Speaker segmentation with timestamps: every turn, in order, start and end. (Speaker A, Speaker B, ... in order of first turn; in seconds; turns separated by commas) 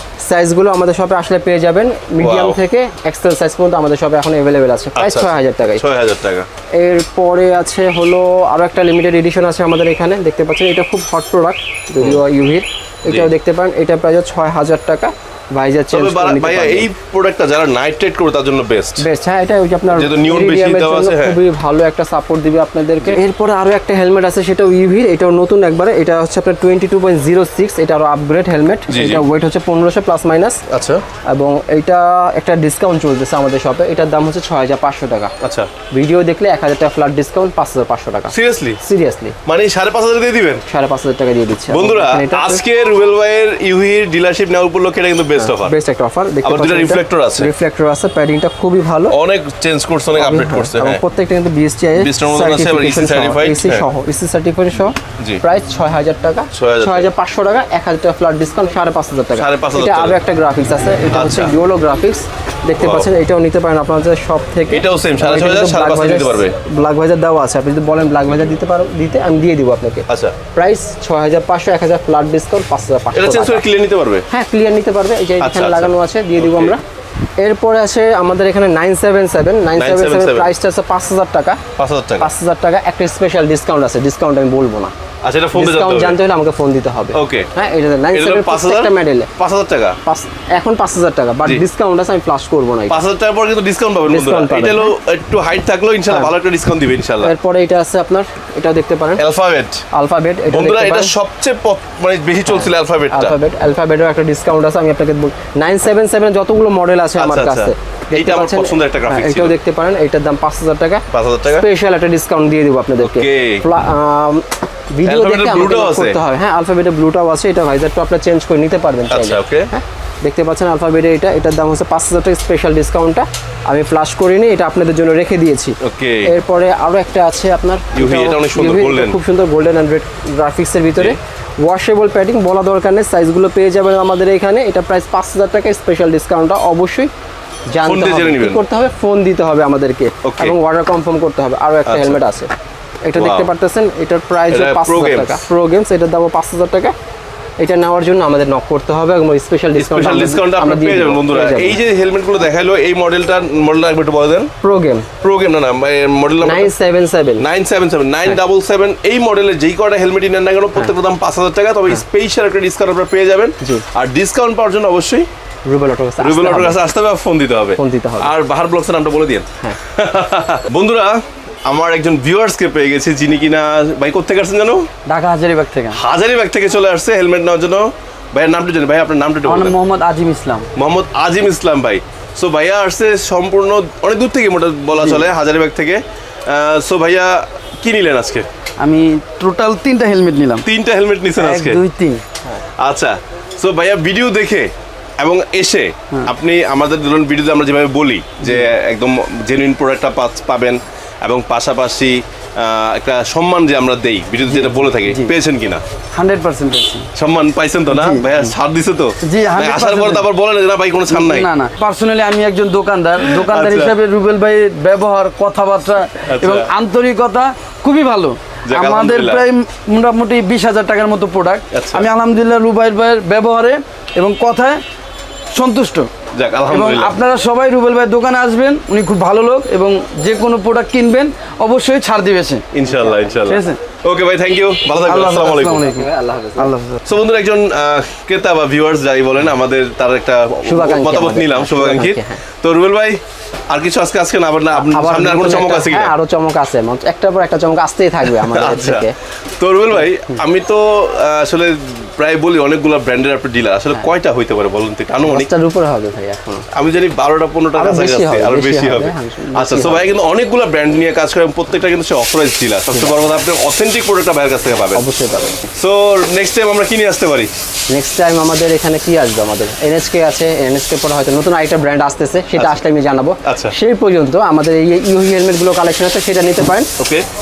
Speaker A: 0.3-5.8, Speaker B: 2.2-2.6, Speaker B: 5.0-6.5, Speaker A: 6.8-16.9, Speaker B: 15.9-19.0, Speaker A: 19.0-30.6, Speaker B: 19.9-21.4, Speaker B: 28.9-29.2, Speaker B: 30.7-31.0, Speaker A: 31.3-35.3, Speaker B: 35.4-35.7, Speaker A: 35.9-39.4, Speaker B: 38.3-38.8, Speaker B: 39.5-40.6, Speaker A: 40.7-42.6, Speaker B: 41.7-45.7, Speaker A: 45.4-49.1, Speaker B: 46.4-47.5, Speaker B: 49.1-51.0, Speaker A: 50.1-73.6, Speaker B: 52.0-53.9, Speaker B: 56.5-57.1, Speaker B: 59.3-60.2, Speaker B: 61.1-61.5, Speaker B: 62.8-63.1, Speaker B: 64.7-66.6, Speaker B: 70.1-70.3, Speaker B: 73.1-74.2, Speaker A: 74.3-76.8, Speaker B: 75.4-76.7, Speaker A: 77.4-81.6, Speaker B: 79.7-80.5, Speaker B: 81.8-82.3, Speaker A: 82.2-84.9, Speaker B: 85.2-86.2, Speaker A: 85.5-89.3, Speaker B: 87.1-87.5, Speaker B: 88.1-90.0, Speaker A: 90.0-93.0, Speaker B: 92.9-97.3, Speaker A: 94.1-94.9, Speaker A: 97.2-99.2, Speaker B: 99.2-99.8, Speaker A: 99.9-101.1, Speaker B: 100.5-103.3, Speaker A: 102.5-137.1, Speaker B: 107.2-109.6, Speaker B: 111.1-111.7, Speaker B: 113.0-113.6, Speaker B: 115.0-116.2, Speaker B: 119.1-119.7, Speaker B: 125.8-126.3, Speaker B: 127.9-129.2, Speaker A: 137.7-142.5, Speaker B: 137.8-138.6, Speaker B: 140.2-140.6, Speaker B: 141.8-142.2, Speaker A: 143.1-146.9, Speaker B: 143.2-143.5, Speaker B: 144.5-145.4, Speaker A: 147.6-151.8, Speaker B: 149.8-154.5, Speaker A: 154.6-155.1, Speaker B: 155.2-156.7, Speaker A: 156.4-157.4, Speaker B: 157.4-165.2, Speaker A: 165.7-166.8, Speaker B: 166.2-174.9, Speaker A: 167.8-168.3, Speaker C: 175.1-176.0, Speaker B: 175.9-179.8, Speaker C: 179.4-180.7, Speaker B: 180.8-188.4, Speaker C: 188.8-190.6, Speaker B: 190.6-191.8, Speaker C: 191.4-192.2, Speaker B: 192.8-205.8, Speaker C: 204.5-205.3, Speaker C: 206.1-207.1, Speaker B: 207.1-211.5, Speaker C: 207.9-208.5, Speaker C: 209.2-210.3, Speaker C: 211.1-224.8, Speaker B: 213.2-213.9, Speaker B: 216.3-216.7, Speaker B: 218.7-219.5, Speaker B: 221.7-222.1, Speaker C: 225.5-226.1, Speaker B: 226.3-227.2, Speaker C: 226.7-232.7, Speaker B: 232.7-235.8, Speaker A: 232.8-233.4, Speaker C: 233.4-233.8, Speaker C: 235.0-237.0, Speaker A: 235.6-236.7, Speaker B: 237.1-246.1, Speaker A: 240.6-242.4, Speaker A: 244.7-249.1, Speaker B: 248.2-249.1, Speaker B: 249.6-255.5, Speaker A: 255.2-256.7, Speaker B: 256.7-265.0, Speaker A: 257.8-260.1, Speaker A: 262.9-263.4, Speaker A: 264.7-265.7, Speaker B: 265.8-267.5, Speaker A: 267.9-276.9, Speaker B: 273.4-273.7, Speaker B: 277.0-277.2